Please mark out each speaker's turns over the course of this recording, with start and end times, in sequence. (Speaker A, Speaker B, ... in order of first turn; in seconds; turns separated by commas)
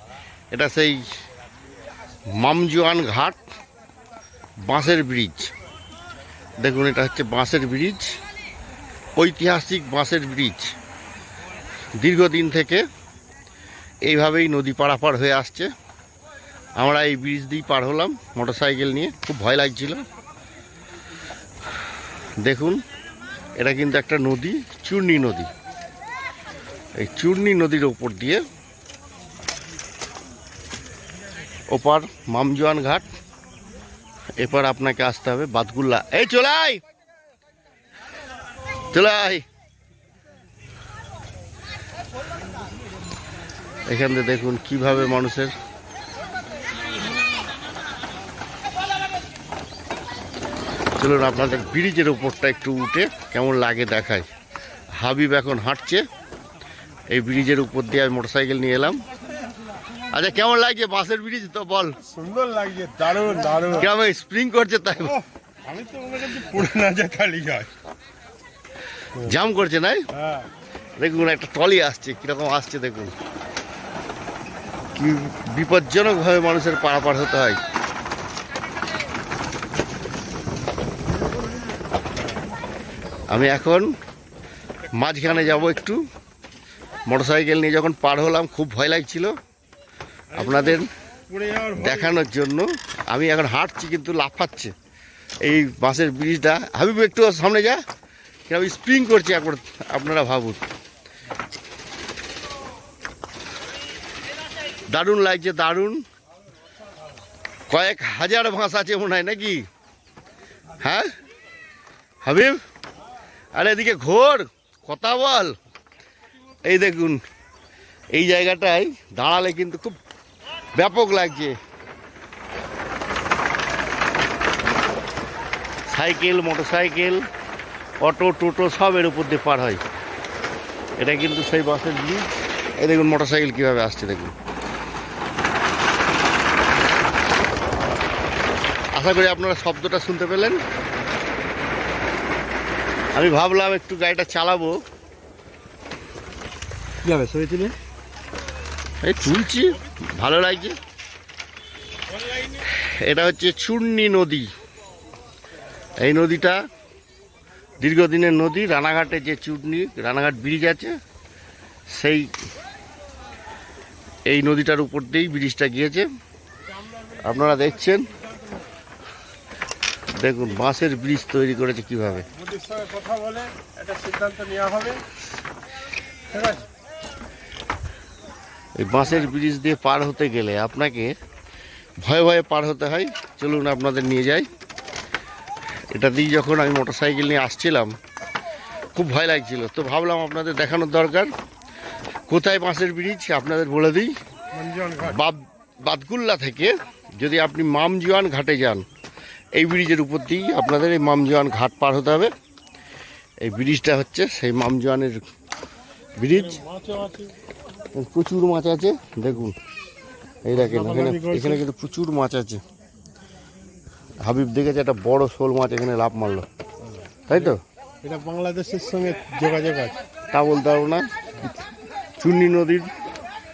Speaker A: 0.5-1.1, Speaker A: 2.3-3.4, Speaker A: 4.6-5.5, Speaker A: 6.6-8.2, Speaker A: 9.2-10.7, Speaker A: 12.0-12.9, Speaker A: 14.0-15.7, Speaker A: 16.8-20.0, Speaker A: 22.4-22.8, Speaker A: 23.6-25.5, Speaker A: 27.0-28.4, Speaker A: 31.7-33.1, Speaker A: 34.4-36.8, Speaker A: 38.9-39.4, Speaker A: 43.9-45.5, Speaker A: 51.0-54.3, Speaker A: 54.9-56.0, Speaker A: 57.1-59.0, Speaker A: 60.1-62.0, Speaker B: 62.1-63.9, Speaker A: 63.8-65.2, Speaker B: 65.0-67.7, Speaker A: 69.2-70.1, Speaker B: 70.1-70.5, Speaker A: 71.0-73.1, Speaker A: 74.9-77.6, Speaker A: 83.3-83.9, Speaker A: 84.9-86.0, Speaker A: 87.1-89.3, Speaker B: 90.3-92.3, Speaker A: 90.4-90.9, Speaker A: 91.8-94.7, Speaker A: 95.4-97.8, Speaker A: 98.5-100.6, Speaker A: 104.9-106.0, Speaker A: 107.7-109.6, Speaker A: 110.8-111.1, Speaker A: 112.2-112.6, Speaker A: 113.5-115.5, Speaker A: 116.6-117.2, Speaker A: 118.1-120.0, Speaker A: 120.7-121.6, Speaker A: 125.9-127.3, Speaker A: 128.0-129.8, Speaker A: 131.0-134.3, Speaker A: 138.9-140.6, Speaker A: 143.1-144.8, Speaker B: 147.0-147.7, Speaker A: 149.0-150.8, Speaker A: 152.5-154.5, Speaker A: 156.0-156.6, Speaker A: 157.8-161.0, Speaker A: 161.9-162.3, Speaker A: 164.3-166.1, Speaker B: 166.8-167.3, Speaker A: 167.2-168.1, Speaker B: 168.3-168.6, Speaker A: 170.1-172.3, Speaker B: 172.3-175.0, Speaker B: 176.3-176.7, Speaker A: 178.8-181.1, Speaker A: 182.0-184.5, Speaker A: 185.9-188.0, Speaker A: 188.9-191.3, Speaker A: 192.3-194.1, Speaker B: 194.5-195.2, Speaker A: 195.0-198.8, Speaker A: 199.5-202.3, Speaker A: 203.4-205.2, Speaker A: 206.2-206.6, Speaker B: 206.3-207.3, Speaker A: 207.9-209.5, Speaker A: 210.4-212.6, Speaker B: 210.5-211.6, Speaker A: 214.2-216.4, Speaker A: 217.3-217.6, Speaker B: 217.3-220.0, Speaker A: 220.3-221.5, Speaker A: 222.2-222.9